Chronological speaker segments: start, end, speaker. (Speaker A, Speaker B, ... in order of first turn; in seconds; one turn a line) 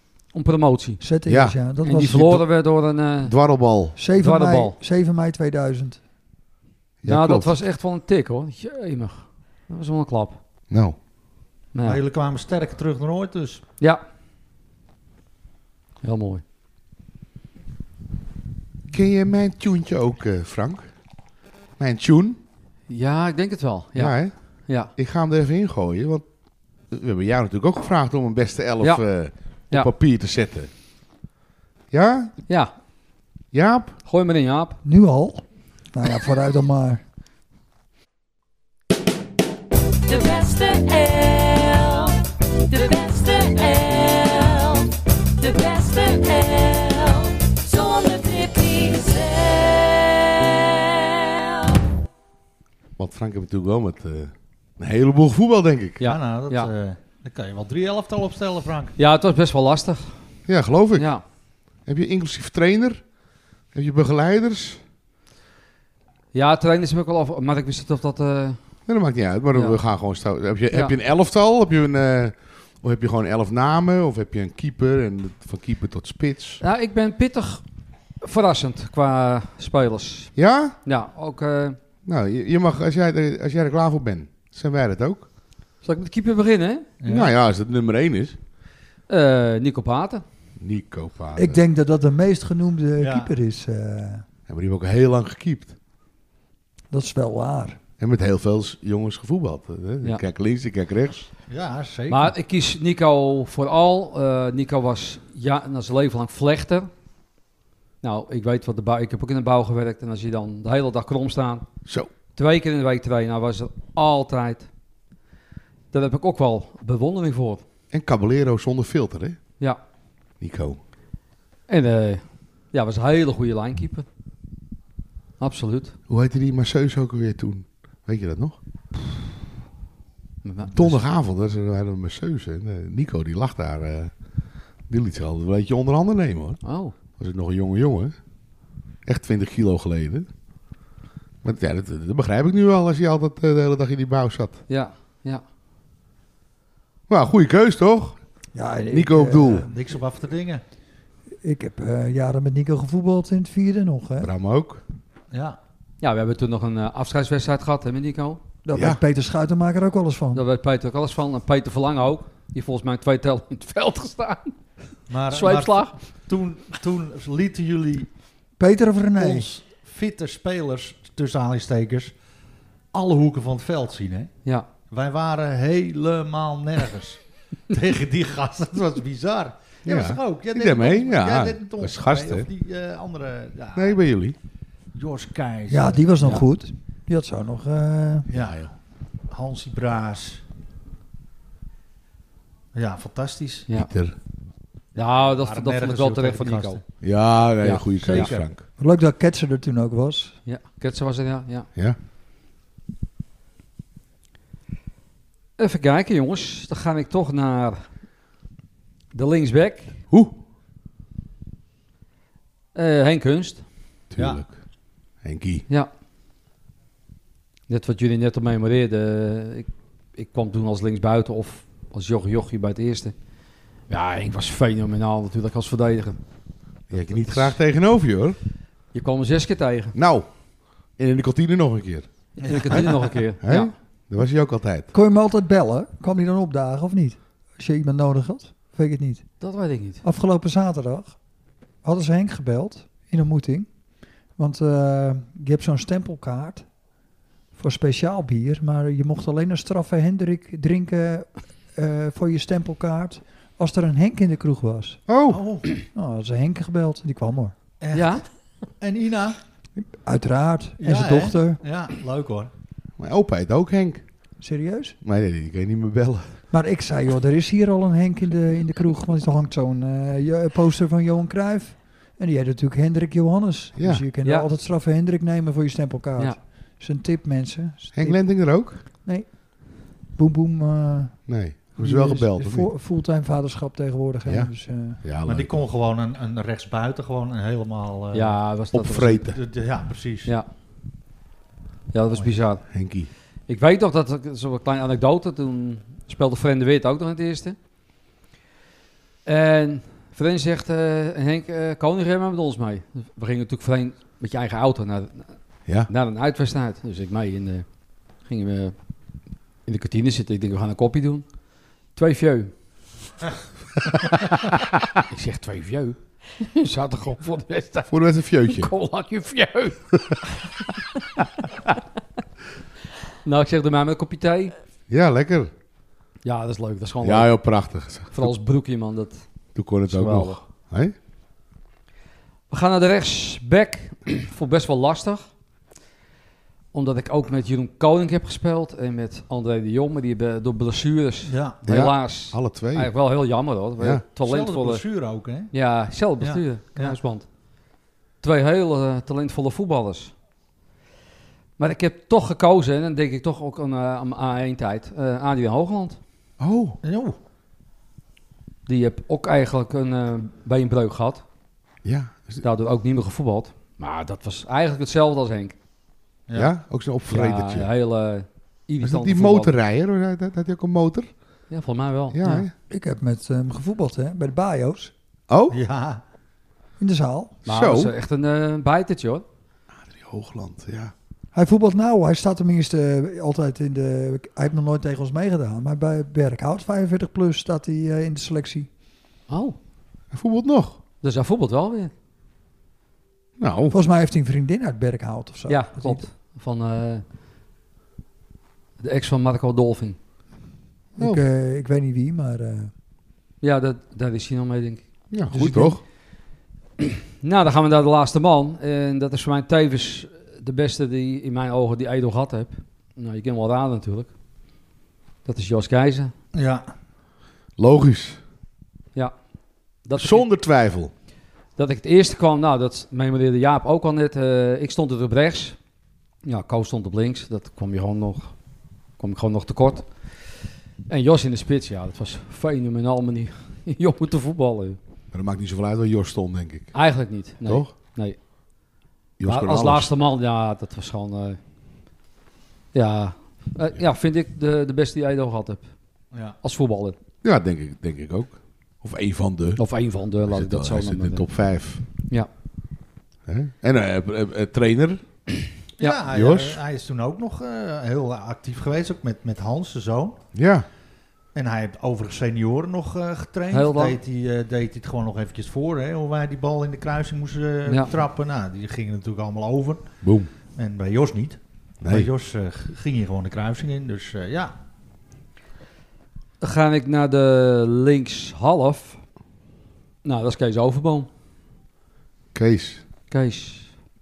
Speaker A: 0.3-1.0
Speaker B: 1.0-2.2
Speaker C: 1.3-1.6
Speaker A: 1.8-3.3
Speaker C: 2.1-2.4
Speaker C: 3.2-3.9
Speaker B: 4.0-6.0
Speaker A: 4.2-4.8
Speaker C: 7.0-7.5
Speaker A: 7.0-10.4
Speaker C: 10.7-11.0
Speaker A: 11.7-12.0
Speaker D: 11.8-13.6
Speaker A: 16.0-16.4
Speaker C: 18.9-20.9
Speaker C: 21.8-22.4
Speaker A: 22.9-24.9
Speaker C: 23.9-26.2
Speaker C: 26.9-30.7
Speaker C: 31.9-32.3
Speaker C: 33.5-33.9
Speaker A: 34.0-34.8
Speaker B: 34.8-37.0
Speaker E: 40.1-51.6
Speaker C: 53.0-56.0
Speaker A: 56.0-56.7
Speaker D: 56.0-59.0
Speaker A: 59.0-60.2
Speaker C: 60.5-61.1
Speaker A: 60.9-61.2
Speaker C: 61.9-63.0
Speaker C: 63.7-64.8
Speaker A: 66.3-68.6
Speaker C: 68.9-76.6
Speaker A: 69.5-69.8
Speaker A: 70.7-71.0
Speaker A: 76.6-77.6
Speaker A: 78.2-81.8
Speaker C: 80.3-80.8
Speaker C: 82.0-85.2
Speaker A: 85.8-86.8
Speaker D: 87.0-87.3
Speaker C: 87.1-88.4
Speaker A: 89.1-90.2
Speaker C: 90.6-91.6
Speaker B: 91.3-94.2
Speaker D: 93.0-93.3
Speaker C: 94.5-95.7
Speaker B: 96.9-97.8
Speaker C: 98.0-101.3
Speaker D: 101.5-102.3
Speaker A: 102.1-106.9
Speaker A: 108.0-111.6
Speaker A: 112.3-114.7
Speaker A: 115.9-117.6
Speaker C: 117.9-119.4
Speaker C: 120.4-120.8
Speaker A: 121.7-124.0
Speaker A: 125.4-126.0
Speaker C: 126.1-128.6
Speaker A: 130.4-131.0
Speaker C: 130.7-134.1
Speaker C: 134.9-136.6
Speaker A: 136.6-136.9
Speaker C: 137.2-138.1
Speaker C: 139.0-140.3
Speaker C: 141.4-144.6
Speaker A: 144.7-145.4
Speaker C: 147.1-148.2
Speaker B: 148.5-149.7
Speaker C: 148.9-149.7
Speaker D: 149.5-150.6
Speaker B: 151.4-154.3
Speaker C: 154.2-154.8
Speaker D: 155.3-155.6
Speaker A: 156.0-158.4
Speaker B: 158.6-160.4
Speaker C: 158.7-159.0
Speaker A: 160.3-164.5
Speaker D: 165.1-168.1
Speaker A: 165.3-165.9
Speaker B: 168.6-169.5
Speaker D: 169.2-172.1
Speaker D: 172.9-174.3
Speaker D: 174.9-184.0
Speaker C: 179.8-182.5
Speaker C: 183.8-184.3
Speaker D: 184.9-186.3
Speaker B: 185.7-188.3
Speaker D: 188.3-188.7
Speaker C: 188.3-188.7
Speaker D: 189.3-190.4
Speaker D: 192.7-193.7
Speaker C: 193.8-194.2
Speaker A: 194.9-196.9
Speaker D: 195.0-196.8
Speaker C: 197.0-198.6
Speaker A: 197.6-198.3
Speaker D: 198.0-198.5
Speaker B: 198.8-200.4
Speaker A: 200.4-201.7
Speaker A: 205.6-207.8
Speaker A: 209.1-210.0
Speaker C: 210.1-210.3
Speaker A: 212.7-213.6
Speaker C: 214.1-214.5
Speaker D: 214.2-214.4
Speaker C: 215.2-215.6
Speaker A: 217.7-223.1
Speaker A: 223.9-226.2
Speaker A: 226.9-227.6
Speaker C: 226.9-228.4
Speaker A: 228.9-229.9
Speaker C: 229.9-230.3
Speaker C: 231.0-232.1
Speaker D: 232.4-233.2
Speaker A: 232.4-233.7
Speaker C: 233.4-234.9
Speaker B: 234.9-239.2
Speaker A: 239.4-240.0
Speaker B: 240.0-241.1
Speaker B: 241.8-243.7
Speaker B: 244.4-246.6
Speaker B: 247.6-255.0
Speaker C: 255.1-255.4
Speaker D: 255.3-255.7
Speaker B: 255.9-257.5
Speaker D: 257.8-258.2
Speaker A: 257.9-258.2
Speaker D: 258.8-259.4
Speaker B: 259.8-261.6
Speaker D: 260.8-262.5
Speaker C: 263.0-264.0
Speaker B: 264.4-265.0
Speaker C: 265.0-266.4
Speaker B: 266.5-281.2
Speaker C: 273.8-274.0
Speaker C: 277.9-278.8
Speaker C: 281.3-282.7
Speaker B: 281.8-285.0
Speaker C: 284.2-285.6
Speaker D: 285.2-288.4
Speaker A: 288.1-289.3
Speaker C: 288.7-289.4
Speaker D: 289.3-290.3
Speaker A: 291.9-292.6
Speaker C: 292.7-293.1
Speaker A: 293.5-297.6
Speaker A: 299.2-307.6
Speaker A: 308.2-308.7
Speaker A: 309.6-311.2
Speaker A: 311.9-312.5
Speaker A: 315.1-320.0
Speaker C: 317.9-318.7
Speaker A: 323.2-324.5
Speaker C: 324.9-325.5
Speaker A: 326.2-329.2
Speaker C: 327.0-328.3
Speaker C: 329.5-330.9
Speaker A: 329.9-330.4
Speaker A: 332.5-335.2
Speaker A: 336.7-344.8
Speaker D: 341.2-341.6
Speaker C: 341.7-342.9
Speaker D: 344.2-345.5
Speaker A: 345.5-347.2
Speaker D: 346.2-347.0
Speaker A: 348.2-350.1
Speaker A: 351.6-356.0
Speaker C: 356.4-356.8
Speaker D: 356.8-357.1
Speaker A: 358.6-361.2
Speaker C: 361.8-362.4
Speaker A: 362.4-365.5
Speaker C: 366.3-367.7
Speaker A: 367.1-369.5
Speaker C: 368.8-371.1
Speaker A: 371.5-372.5
Speaker C: 372.1-372.5
Speaker B: 372.7-374.9
Speaker C: 375.3-375.6
Speaker D: 375.5-376.0
Speaker B: 376.8-377.4
Speaker C: 377.4-377.9
Speaker A: 377.4-379.2
Speaker C: 379.8-380.9
Speaker B: 381.3-388.7
Speaker A: 389.3-389.6
Speaker C: 390.1-390.8
Speaker A: 391.0-391.9
Speaker C: 393.4-393.8
Speaker B: 393.7-396.0
Speaker A: 395.5-397.0
Speaker A: 398.8-399.9
Speaker C: 400.9-401.2
Speaker B: 401.0-402.7
Speaker A: 403.4-405.4
Speaker C: 405.1-405.8
Speaker B: 405.3-405.8
Speaker A: 406.8-414.1
Speaker A: 415.2-416.1
Speaker D: 416.3-416.6
Speaker C: 417.6-418.2
Speaker A: 419.8-420.2
Speaker C: 420.0-420.9
Speaker A: 421.6-425.6
Speaker A: 426.2-428.3
Speaker A: 429.0-430.1
Speaker A: 430.9-434.8
Speaker C: 435.1-436.7
Speaker A: 436.7-438.2
Speaker C: 437.4-437.7
Speaker C: 439.2-439.9
Speaker A: 439.2-441.4
Speaker A: 442.7-445.6
Speaker A: 446.4-446.9
Speaker C: 447.2-449.6
Speaker A: 449.6-451.3
Speaker C: 450.2-451.8
Speaker C: 453.3-455.0
Speaker D: 455.8-460.2
Speaker C: 456.1-456.6
Speaker C: 460.3-460.7
Speaker D: 461.3-469.9
Speaker A: 463.5-464.0
Speaker C: 470.0-470.3
Speaker D: 470.6-474.5
Speaker C: 471.8-472.1
Speaker A: 476.4-479.0
Speaker A: 480.0-481.1
Speaker C: 482.3-482.8
Speaker A: 483.1-483.7